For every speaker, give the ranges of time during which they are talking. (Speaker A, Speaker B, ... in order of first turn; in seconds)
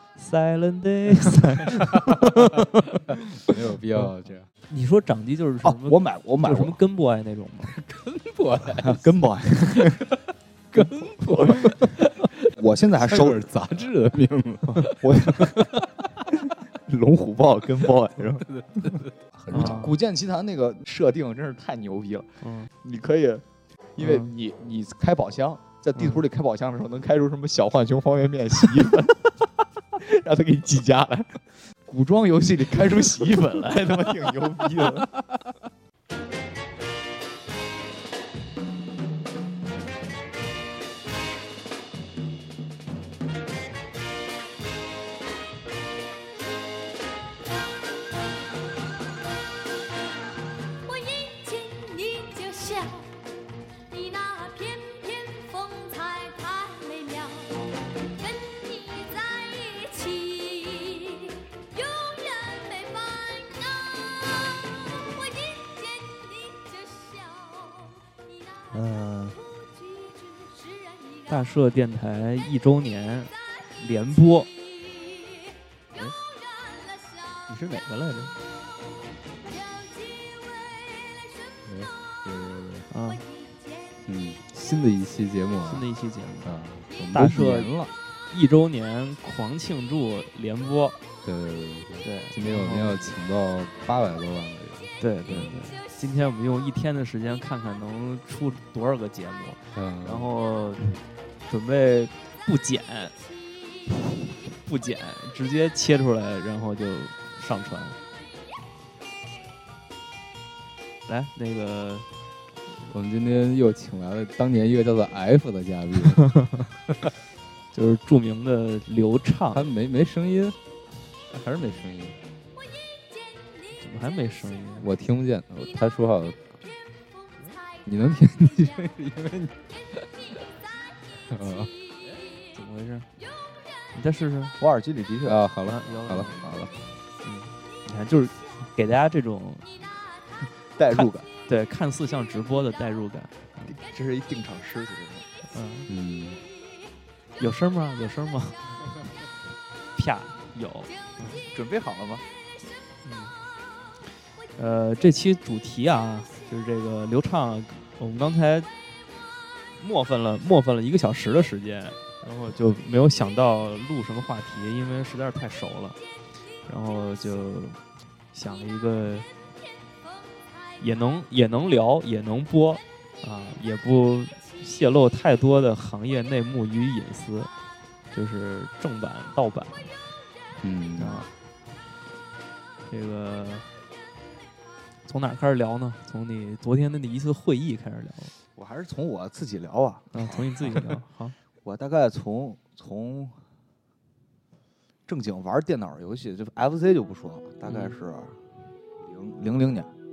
Speaker A: 0.2-2.6, 4.7-7.8, 19.5-20.0, 22.4-22.7, 24.0-24.3, 68.7-69.4, 71.3-74.5, 77.5-78.3, 82.9-83.3, 85.7-86.6, 87.1-87.7, 88.3-91.0, 92.0-93.1, 95.0-101.0, 101.5-103.2, 104.5-108.0, 111.1-112.1, 116.2-116.7, 117.7-119.7, 123.7-124.9, 132.4-133.1, 133.9-134.6, 135.7-136.5, 137.2-139.7, 140.9-143.8, 145.5-145.9, 147.4-148.9, 150.0-151.4, 153.0-153.3, 154.6-158.7, 159.8-166.0, 166.7-167.8, 168.3-169.3, 170.8-177.5, 178.1-179.9, 181.0-181.3, 182.9-183.7, 185.1-188.3, 190.1-191.3, 197.7-197.9
Speaker B: 2.1-4.5, 7.7-9.1, 9.8-10.0, 10.7-12.5, 13.0-16.3, 18.4-19.9, 81.7-82.9, 84.1-85.9, 86.4-87.9, 91.2-95.6, 99.8-100.3, 112.9-116.3, 119.5-120.6, 121.3-122.2, 124.8-126.5, 127.8-130.4, 131.3-131.7, 135.2-136.3, 145.9-146.4, 180.6-181.3
Speaker C: 5.6-6.8, 8.8-10.1, 11.3-11.9, 12.5-13.4, 14.9-15.7, 16.4-18.5, 19.5-23.4, 24.0-29.3, 30.0-35.1, 134.6-135.4, 136.3-136.7, 140.8-141.3, 143.7-145.3, 151.3-152.2, 188.6-190.9, 191.6-193.4, 195.1-198.4, 199.0-199.9
Speaker D: 51.5-53.0, 54.5-54.9, 55.6-57.3, 58.9-61.3, 62.4-63.1